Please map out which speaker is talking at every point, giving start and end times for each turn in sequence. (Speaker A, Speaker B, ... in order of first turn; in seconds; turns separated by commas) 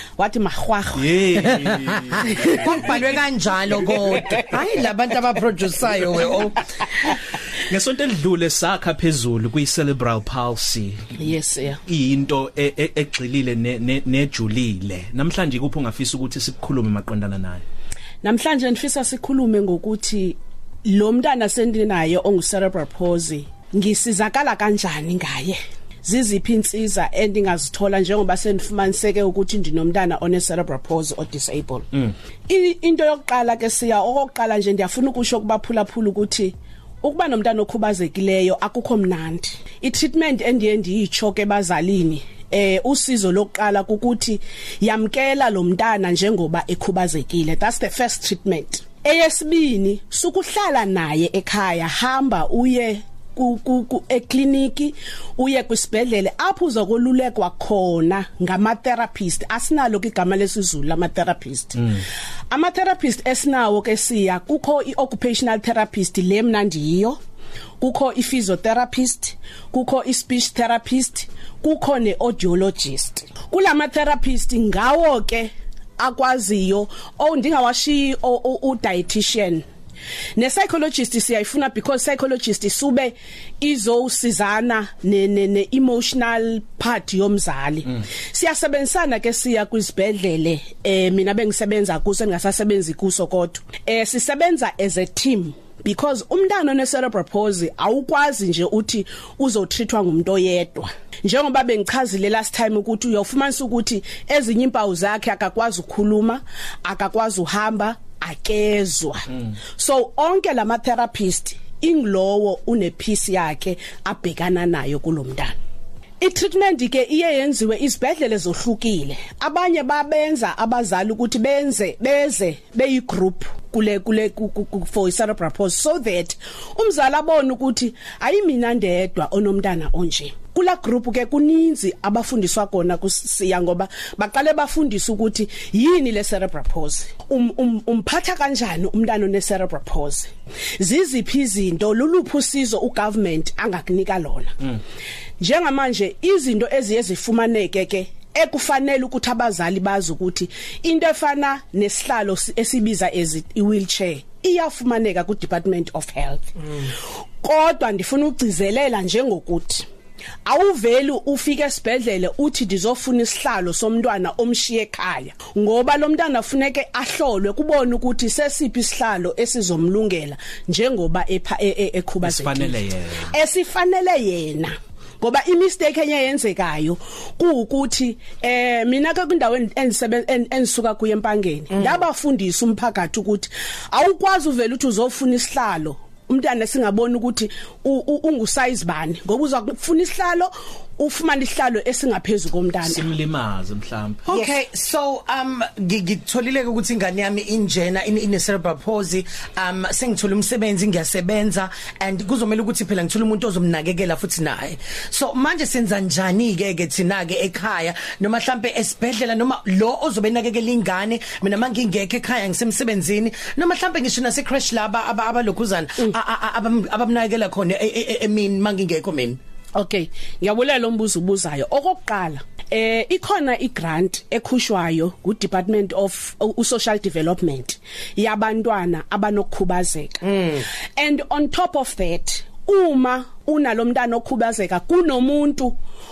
Speaker A: 0.2-1.2, Speaker B: 0.9-2.7, Speaker C: 2.4-6.6, Speaker B: 7.6-11.1, Speaker A: 11.2-11.8, Speaker B: 11.9-17.6, Speaker A: 18.2-31.9, Speaker A: 32.5-62.0, Speaker A: 62.5-67.2, Speaker A: 67.8-79.6, Speaker A: 80.3-115.5, Speaker A: 116.2-144.7, Speaker A: 145.4-159.8, Speaker A: 160.4-193.1, Speaker B: 172.2-173.3, Speaker B: 192.8-194.3, Speaker C: 194.2-219.4, Speaker A: 219.8-235.8